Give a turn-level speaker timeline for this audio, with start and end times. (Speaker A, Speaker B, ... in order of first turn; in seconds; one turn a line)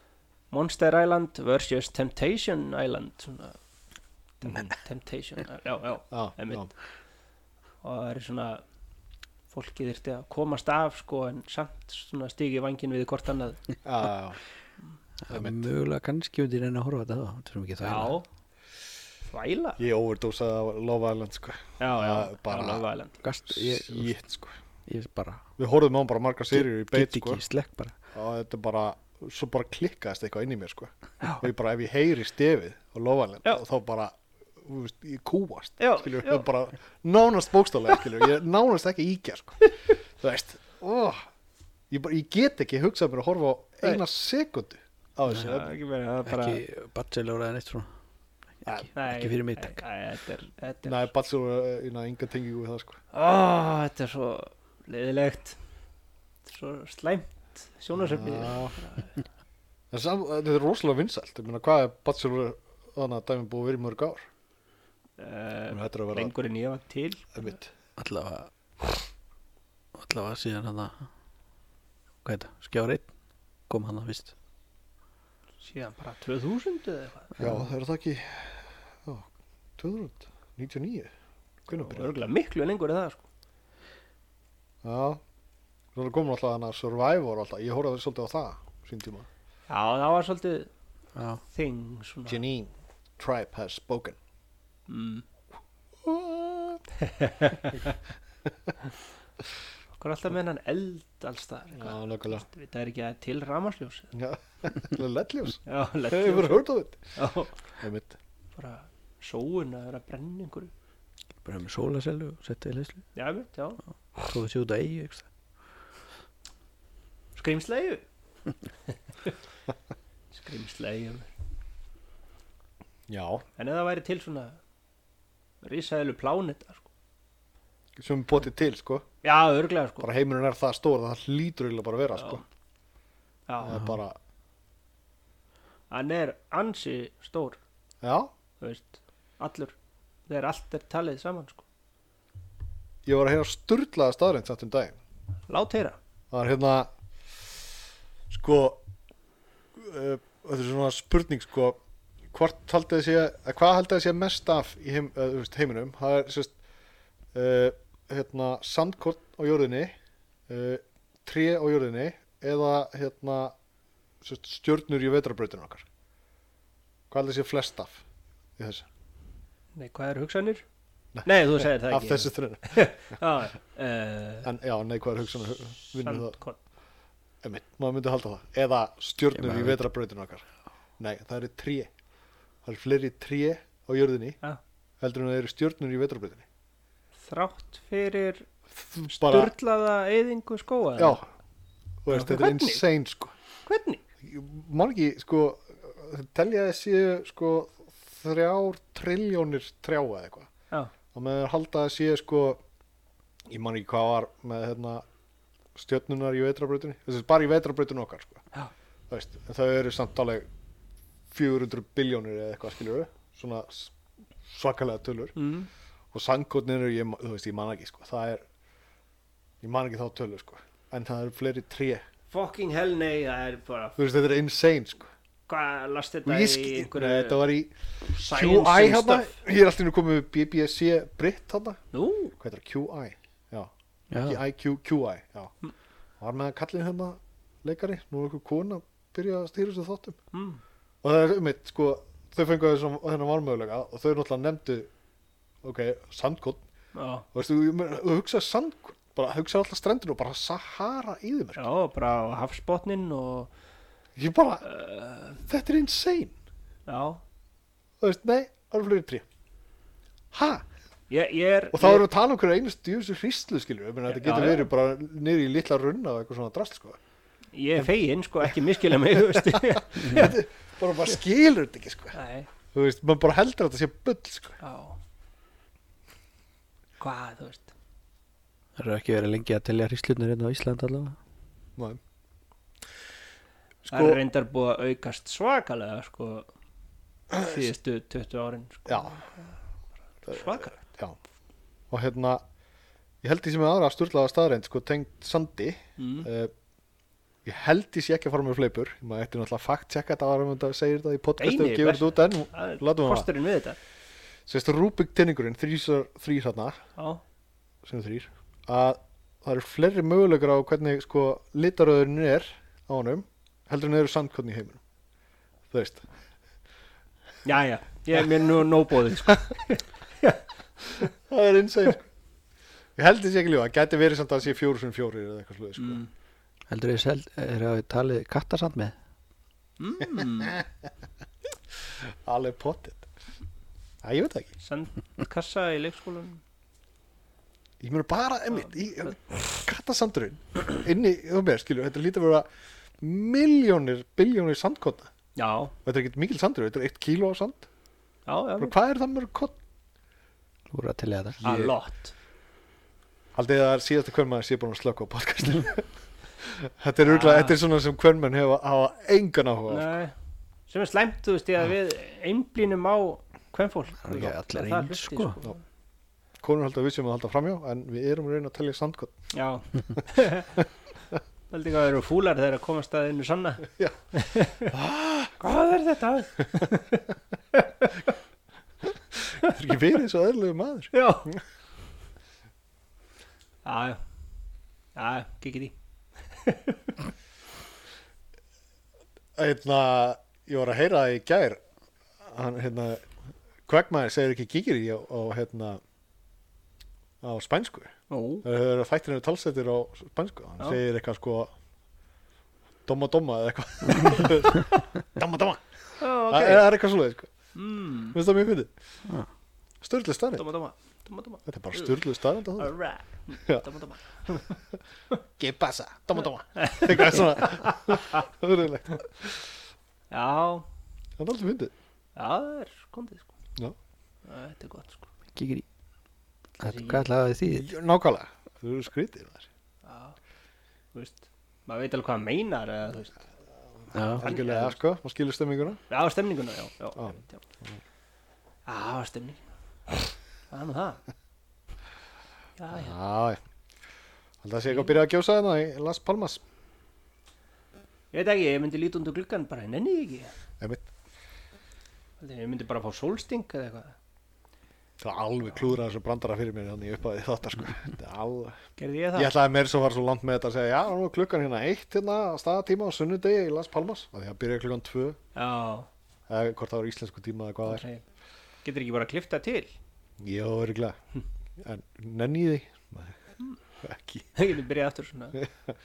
Speaker A: 0.5-3.6
Speaker A: 4.4-6.7
Speaker B: 4.5-4.7
Speaker B: 6.1-6.7
Speaker A: 7.8-8.6
Speaker A: 9.5-13.6
Speaker B: 13.8-14.4
Speaker C: 15.3-18.2
Speaker B: 15.3-15.7
Speaker A: 17.8-18.3
Speaker A: 19.3-19.8
Speaker B: 19.8-22.9
Speaker A: 21.8-23.2
Speaker C: 23.2-24.2
Speaker B: 23.5-24.6
Speaker C: 24.9-25.4
Speaker B: 25.6-27.4
Speaker C: 26.5-27.9
Speaker B: 28.1-41.3
Speaker A: 35.8-36.5
Speaker B: 41.9-45.7
Speaker A: 45.4-46.6
Speaker C: 46.2-47.9
Speaker C: 48.6-49.8
Speaker A: 48.9-51.1
Speaker B: 50.9-53.0
Speaker A: 53.1-55.6
Speaker A: 56.4-59.2
Speaker B: 58.0-58.8
Speaker B: 59.9-64.3
Speaker A: 65.2-67.5
Speaker B: 65.7-66.3
Speaker B: 67.3-67.7
Speaker C: 68.0-69.0
Speaker C: 70.0-71.1
Speaker C: 72.2-73.1
Speaker C: 73.7-74.3
Speaker A: 75.6-77.3
Speaker B: 77.4-81.1
Speaker B: 81.7-82.1
Speaker A: 81.7-83.2
Speaker B: 84.8-85.2
Speaker B: 86.0-89.3
Speaker A: 89.7-90.7
Speaker C: 91.2-91.4
Speaker A: 91.5-92.4
Speaker B: 92.3-94.2
Speaker A: 94.9-95.2
Speaker B: 96.0-96.8
Speaker A: 97.0-98.0
Speaker A: 100.0-104.1
Speaker B: 101.8-102.4
Speaker B: 104.1-107.1
Speaker A: 105.7-107.6
Speaker B: 107.8-108.2
Speaker A: 108.6-110.7
Speaker C: 111.5-113.1
Speaker A: 113.2-113.8
Speaker C: 114.2-115.3
Speaker A: 117.3-118.0
Speaker A: 118.9-119.4
Speaker A: 120.3-121.3
Speaker B: 123.1-123.4
Speaker A: 123.6-124.6
Speaker A: 125.6-126.9
Speaker B: 128.0-129.1
Speaker A: 129.2-130.1
Speaker B: 130.0-132.4
Speaker A: 132.2-132.4
Speaker A: 133.5-133.8
Speaker B: 133.6-134.2
Speaker A: 135.9-137.6
Speaker B: 138.0-138.3
Speaker A: 138.6-139.8
Speaker A: 140.3-141.6
Speaker B: 143.1-145.0
Speaker A: 145.5-146.0
Speaker B: 146.3-146.9
Speaker B: 148.3-148.8
Speaker B: 149.8-151.8
Speaker B: 152.3-156.6
Speaker B: 157.3-159.9
Speaker B: 160.5-163.6
Speaker B: 164.2-165.9
Speaker B: 167.1-168.0
Speaker B: 168.6-168.9
Speaker A: 169.8-170.7
Speaker B: 171.2-172.9
Speaker A: 171.2-174.5
Speaker B: 174.4-176.4
Speaker A: 175.9-176.6
Speaker B: 177.4-180.5
Speaker C: 179.4-179.8
Speaker B: 181.0-181.9
Speaker B: 182.6-184.4
Speaker B: 185.0-186.5
Speaker A: 187.2-188.5
Speaker B: 188.8-189.5
Speaker A: 189.0-191.2
Speaker B: 191.0-191.2
Speaker B: 192.0-193.3
Speaker A: 192.1-192.8
Speaker A: 193.7-194.0
Speaker B: 194.2-200.5
Speaker B: 201.1-202.6
Speaker B: 203.5-205.1
Speaker B: 205.8-208.5
Speaker B: 209.1-210.5
Speaker B: 211.3-215.3
Speaker A: 215.3-215.7
Speaker B: 216.1-218.4
Speaker B: 219.6-222.0
Speaker A: 222.3-224.0
Speaker B: 224.0-225.1
Speaker A: 225.5-227.5
Speaker B: 226.2-231.8
Speaker A: 228.1-229.4
Speaker A: 231.9-232.3
Speaker B: 232.4-233.7
Speaker C: 234.1-234.4
Speaker B: 234.2-235.5
Speaker B: 236.2-240.2
Speaker A: 240.3-240.6
Speaker B: 241.0-244.9
Speaker B: 245.6-246.6
Speaker A: 246.9-247.2
Speaker B: 247.3-251.6
Speaker A: 251.6-253.5
Speaker B: 254.2-254.7
Speaker A: 254.7-255.4
Speaker B: 255.4-256.3
Speaker A: 256.9-257.2
Speaker B: 258.0-259.2
Speaker B: 260.3-260.7
Speaker A: 261.1-262.1
Speaker B: 261.7-267.0
Speaker A: 264.1-264.7
Speaker A: 267.5-270.4
Speaker B: 269.1-272.2
Speaker A: 272.1-272.5
Speaker B: 272.7-274.6
Speaker A: 274.6-275.0
Speaker A: 277.0-277.7
Speaker C: 278.8-281.2
Speaker B: 283.9-284.2
Speaker A: 283.9-286.5
Speaker B: 287.3-287.6
Speaker A: 287.4-289.6
Speaker B: 288.9-289.2
Speaker A: 290.2-290.8
Speaker B: 290.3-291.2
Speaker B: 291.9-292.4
Speaker B: 293.2-296.5
Speaker A: 296.0-296.3
Speaker B: 297.4-303.3
Speaker A: 301.4-303.8
Speaker B: 304.5-306.8
Speaker A: 307.0-307.2
Speaker B: 307.8-314.8
Speaker B: 315.7-316.1
Speaker A: 317.4-321.1
Speaker B: 321.3-322.1
Speaker B: 323.0-326.0
Speaker A: 325.8-326.1
Speaker C: 326.7-328.9
Speaker A: 329.8-330.6
Speaker B: 331.8-333.1
Speaker B: 334.0-334.5
Speaker A: 334.6-336.4
Speaker B: 337.8-342.5
Speaker B: 343.0-345.1
Speaker A: 345.4-345.7
Speaker B: 345.9-347.7
Speaker A: 348.3-348.7
Speaker B: 348.6-349.6
Speaker C: 350.7-351.4
Speaker B: 351.4-351.7
Speaker A: 351.4-352.1
Speaker B: 353.4-360.0
Speaker A: 357.0-357.6
Speaker A: 359.7-360.1
Speaker A: 360.7-365.6
Speaker C: 364.1-365.4
Speaker B: 366.4-369.1
Speaker A: 369.3-370.7
Speaker A: 371.5-374.7
Speaker B: 374.7-375.4
Speaker A: 375.4-378.1
Speaker B: 379.2-381.4
Speaker A: 380.9-381.3
Speaker A: 383.6-384.0
Speaker A: 384.9-385.7
Speaker A: 386.3-387.0
Speaker B: 389.4-391.6
Speaker B: 392.2-393.1
Speaker B: 393.7-395.8
Speaker B: 397.2-401.5
Speaker A: 398.1-398.4
Speaker B: 402.9-405.7
Speaker A: 406.0-406.7
Speaker B: 406.3-407.3
Speaker A: 407.5-408.2
Speaker B: 408.1-408.7
Speaker B: 409.8-410.4
Speaker A: 410.4-411.9
Speaker B: 411.5-412.8
Speaker A: 412.6-414.5
Speaker B: 414.3-414.6
Speaker B: 415.4-419.4
Speaker A: 416.6-418.2
Speaker A: 420.1-420.7
Speaker B: 421.2-421.7
Speaker A: 422.2-423.3
Speaker A: 424.2-425.1
Speaker C: 425.3-425.6
Speaker A: 426.6-427.1
Speaker C: 426.6-427.7
Speaker B: 427.5-429.5
Speaker A: 429.8-430.2
Speaker A: 430.9-433.2
Speaker C: 433.9-434.3
Speaker B: 434.1-435.8
Speaker A: 434.2-434.8
Speaker A: 435.9-437.4
Speaker B: 437.0-437.8
Speaker A: 438.7-439.4
Speaker A: 440.5-441.0
Speaker A: 442.6-443.0
Speaker B: 442.7-443.4
Speaker B: 444.4-446.4
Speaker A: 448.1-450.3
Speaker B: 450.6-450.9
Speaker A: 452.2-454.0
Speaker B: 455.0-458.6
Speaker A: 458.8-459.3
Speaker B: 459.2-465.2
Speaker A: 465.4-465.9
Speaker B: 466.3-467.8
Speaker A: 467.6-468.0
Speaker A: 468.6-469.8
Speaker B: 470.2-471.0
Speaker B: 471.6-473.2
Speaker B: 473.8-474.3
Speaker A: 474.4-475.4
Speaker B: 475.4-475.7